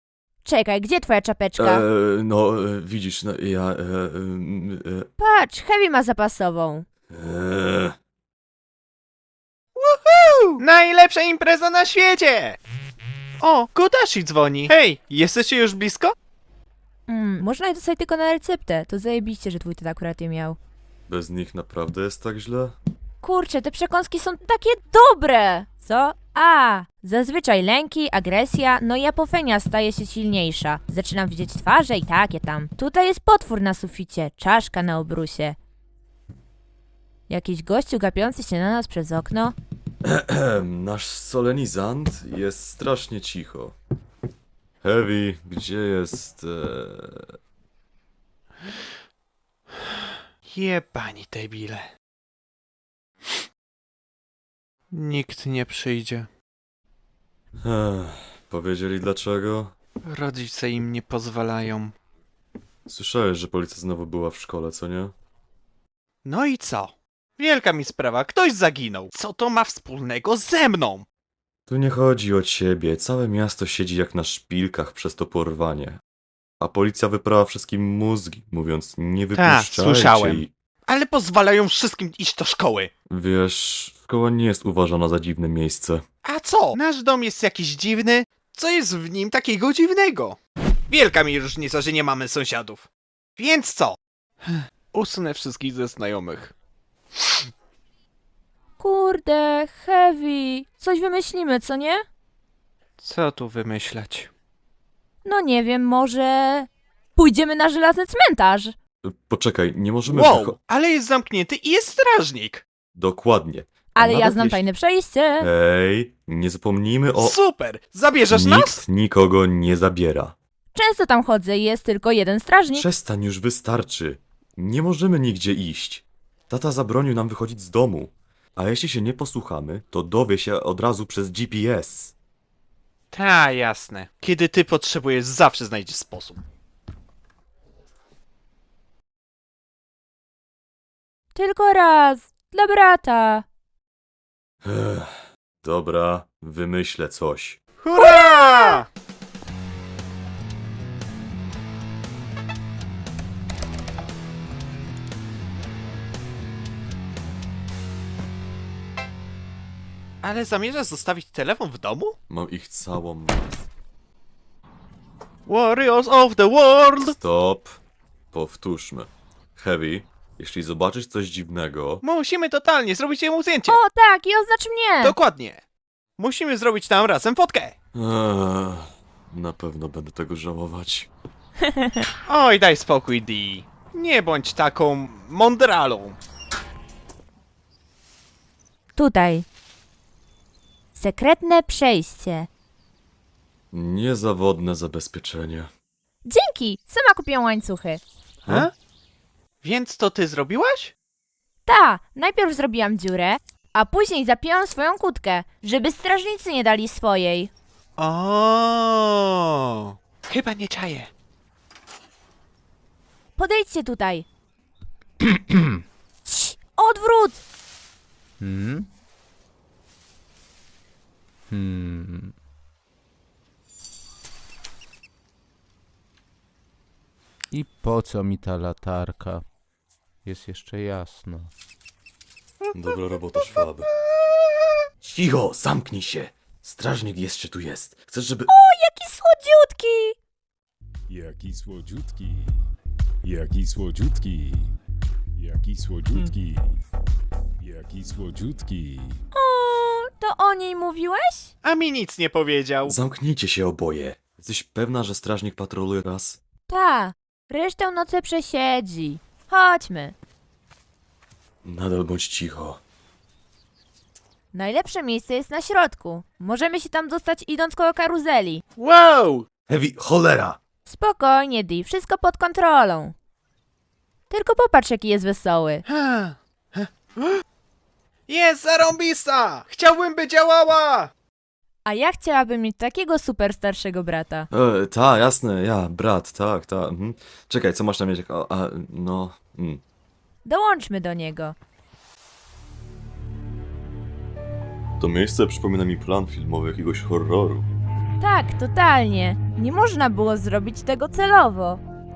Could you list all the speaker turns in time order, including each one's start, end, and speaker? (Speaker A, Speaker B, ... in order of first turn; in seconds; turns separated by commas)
Speaker A: 0.4-1.8, Speaker B: 1.6-5.1, Speaker A: 5.2-6.8, Speaker B: 7.1-7.9, Speaker C: 9.8-12.6, Speaker C: 13.4-16.1, Speaker A: 17.1-20.6, Speaker B: 21.1-22.7, Speaker A: 23.2-35.6, Speaker A: 37.3-39.5, Speaker B: 40.0-43.8, Speaker B: 44.8-47.3, Speaker C: 50.5-51.9, Speaker C: 54.9-56.3, Speaker B: 57.6-59.7, Speaker C: 60.0-61.9, Speaker B: 62.9-65.1, Speaker C: 66.2-71.0, Speaker B: 71.7-76.0, Speaker B: 76.6-80.5, Speaker C: 79.3-82.9, Speaker B: 83.1-86.0, Speaker C: 86.2-90.4, Speaker C: 90.9-92.9, Speaker C: 93.4-96.5, Speaker A: 98.8-102.0, Speaker C: 103.0-104.3, Speaker A: 105.2-108.8, Speaker B: 109.0-110.6, Speaker C: 110.0-112.6, Speaker B: 112.9-114.7, Speaker A: 113.9-115.5, Speaker B: 115.4-117.4, Speaker C: 117.2-118.8, Speaker B: 118.3-120.3, Speaker A: 120.7-122.9, Speaker B: 122.7-132.1, Speaker C: 133.1-136.4, Speaker A: 141.3-143.4, Speaker B: 144.6-147.6, Speaker C: 147.8-148.8, Speaker A: 148.0-148.8, Speaker C: 160.2-162.2, Speaker B: 162.3-163.5, Speaker C: 165.4-167.1, Speaker B: 167.0-167.7, Speaker B: 168.3-172.0, Speaker C: 172.0-173.8, Speaker A: 173.7-175.1, Speaker C: 175.0-175.6, Speaker C: 176.2-177.7, Speaker B: 177.9-181.1, Speaker C: 182.3-186.2, Speaker A: 188.9-189.4, Speaker A: 190.9-192.5, Speaker B: 193.7-195.7, Speaker A: 196.2-198.0, Speaker C: 198.4-198.7, Speaker C: 199.6-200.9, Speaker A: 201.7-207.5, Speaker C: 208.0-211.1, Speaker A: 213.4-214.2, Speaker A: 216.3-217.4, Speaker D: 218.4-218.9, Speaker D: 221.5-222.3, Speaker D: 227.5-229.4, Speaker D: 230.2-231.5, Speaker B: 232.7-233.9, Speaker B: 235.0-238.5, Speaker A: 238.5-240.2, Speaker E: 241.1-242.6, Speaker E: 243.2-244.7, Speaker E: 245.4-246.7, Speaker E: 247.6-249.2, Speaker A: 249.3-251.5, Speaker C: 251.6-252.9, Speaker B: 252.8-256.4, Speaker A: 256.7-260.1, Speaker B: 261.6-262.8, Speaker A: 264.5-268.6, Speaker C: 268.8-269.4, Speaker B: 269.7-270.6, Speaker A: 270.9-273.1, Speaker A: 274.3-275.8, Speaker C: 275.9-277.4, Speaker C: 278.3-281.1, Speaker A: 281.8-284.5, Speaker B: 284.5-289.8, Speaker A: 290.4-291.5, Speaker B: 295.0-297.7, Speaker A: 298.2-301.8